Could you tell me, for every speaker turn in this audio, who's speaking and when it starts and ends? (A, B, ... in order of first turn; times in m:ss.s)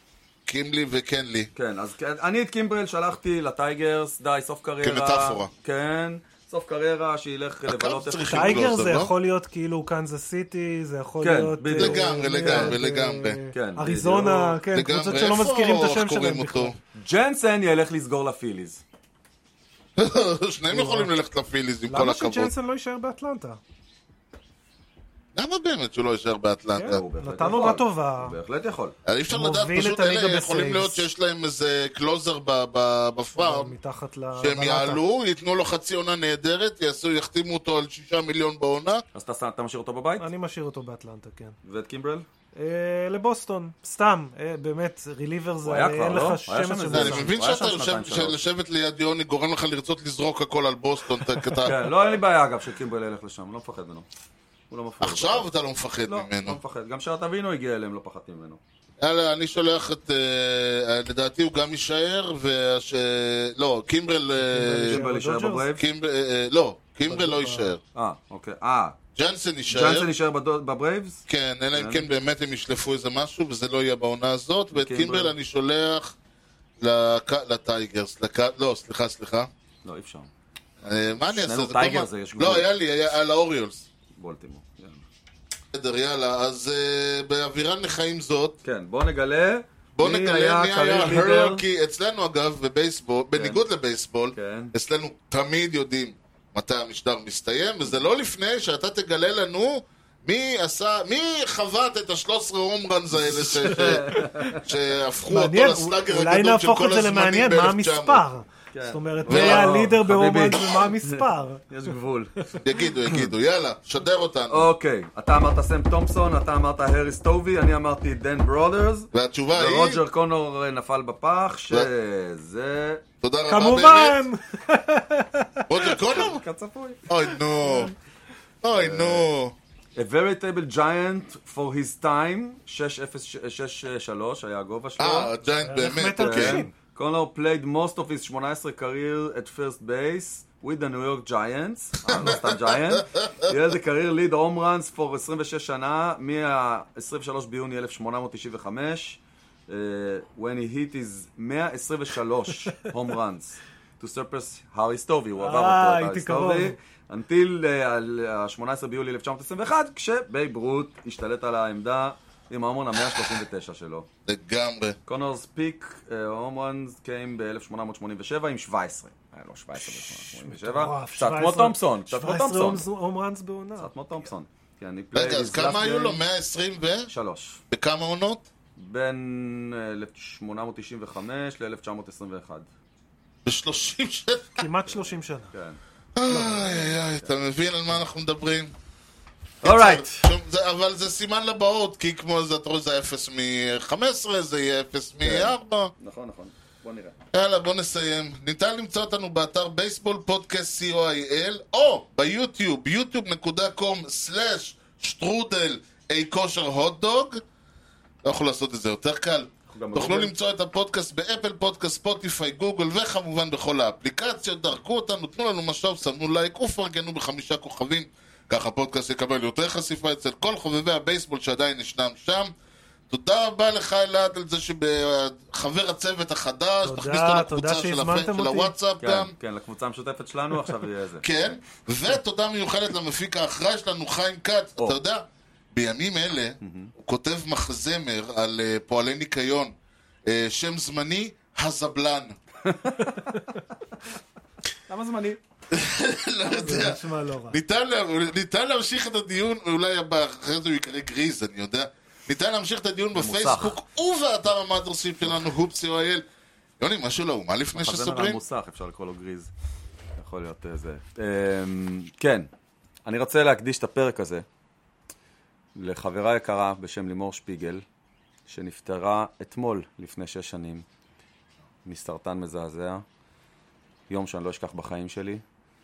0:00.4-0:01.5 A
0:01.6-0:08.7 B
0:04.8-0:05.5 A
0:07.6-0:09.1 A
0:08.2-0:16.7 C
0:11.2-0:12.8 B
0:11.8-0:13.4 A
0:13.5-0:14.6 B
0:14.7-0:16.8 A
0:16.9-0:18.8 B
0:20.0-0:22.5 A
0:20.7-0:21.1 C
0:21.9-0:23.6 C
0:25.3-0:27.0 A
0:26.8-0:28.4 C
0:26.8-0:28.9 B
0:29.0-0:33.7 A
0:29.3-0:31.0 C
0:33.4-0:35.0 C
0:34.4-0:39.0 A
0:39.1-0:40.3 B
0:40.2-0:41.6 C
0:41.6-0:42.3 B
0:42.6-0:47.3 C
0:45.6-0:48.4 B
0:46.9-0:51.7 A
0:51.6-0:54.0 B
0:54.7-0:55.5 B
0:55.0-0:56.6 A
0:56.0-0:58.6 B
0:59.0-1:05.0 A
1:04.4-1:05.7 C
1:04.9-1:05.8 B
1:05.8-1:07.8 A
1:07.1-1:07.7 C
1:07.9-1:09.0 B
1:09.2-1:10.1 A
1:09.7-1:11.2 B
1:11.3-1:16.1 A
1:11.7-1:12.0 B
1:14.7-1:15.3 B
1:16.8-1:19.5 A
1:19.8-1:20.3 B
1:20.8-1:23.8 A
1:21.2-1:22.7 B
1:24.2-1:25.0 B
1:25.7-1:28.6 A
1:28.6-1:31.6 B
1:30.0-1:48.2 A
1:33.3-1:33.6 B
1:34.3-1:34.7 B
1:43.4-1:44.6 C
1:43.6-1:44.6 B
1:45.3-1:51.6 C
1:48.7-1:52.6 B
1:49.3-1:49.8 A
1:52.6-1:54.7 A
1:54.5-2:03.0 B
1:59.1-2:00.0 A
2:03.2-2:04.2 A
2:03.5-2:06.0 C
2:05.7-2:06.4 A
2:06.0-2:07.1 B
2:07.1-2:07.9 A
2:07.6-2:07.9 C
2:08.6-2:09.6 A
2:08.7-2:09.3 B
2:10.0-2:15.3 B
2:15.0-2:16.6 A
2:15.6-2:16.7 C
2:16.2-2:44.1 B
2:22.1-2:23.4 A
2:35.4-2:36.7 C
2:44.3-2:45.0 A
2:45.0-2:52.8 B
2:50.4-2:53.9 C
2:53.8-2:56.2 B
2:55.1-2:57.1 A
2:57.1-2:57.6 B
2:57.7-2:58.4 A
2:58.8-3:02.7 B
3:03.4-3:04.6 A
3:04.6-3:05.5 C
3:04.9-3:05.8 B
3:06.1-3:08.7 A
3:06.4-3:06.7 C
3:09.6-3:10.3 B
3:09.6-3:15.9 A
3:15.2-3:17.1 B
3:17.3-3:27.4 A
3:28.2-3:42.5 A
3:29.7-3:30.3 B
3:43.1-3:49.3 A
3:46.8-3:48.7 C
3:49.0-3:51.3 B
3:51.2-3:59.7 A
3:56.6-3:56.9 B
4:00.3-4:02.4 A
4:02.6-4:03.3 B
4:04.9-4:05.4 B
4:05.7-4:16.2 A
4:06.4-4:07.6 C
4:13.1-4:13.8 B
4:16.8-4:18.4 A
4:17.7-4:19.5 B
4:20.2-4:22.5 B
4:23.0-4:24.4 B
4:25.7-4:27.8 B
4:28.5-4:30.8 B
4:31.8-4:33.0 B
4:34.1-4:35.4 B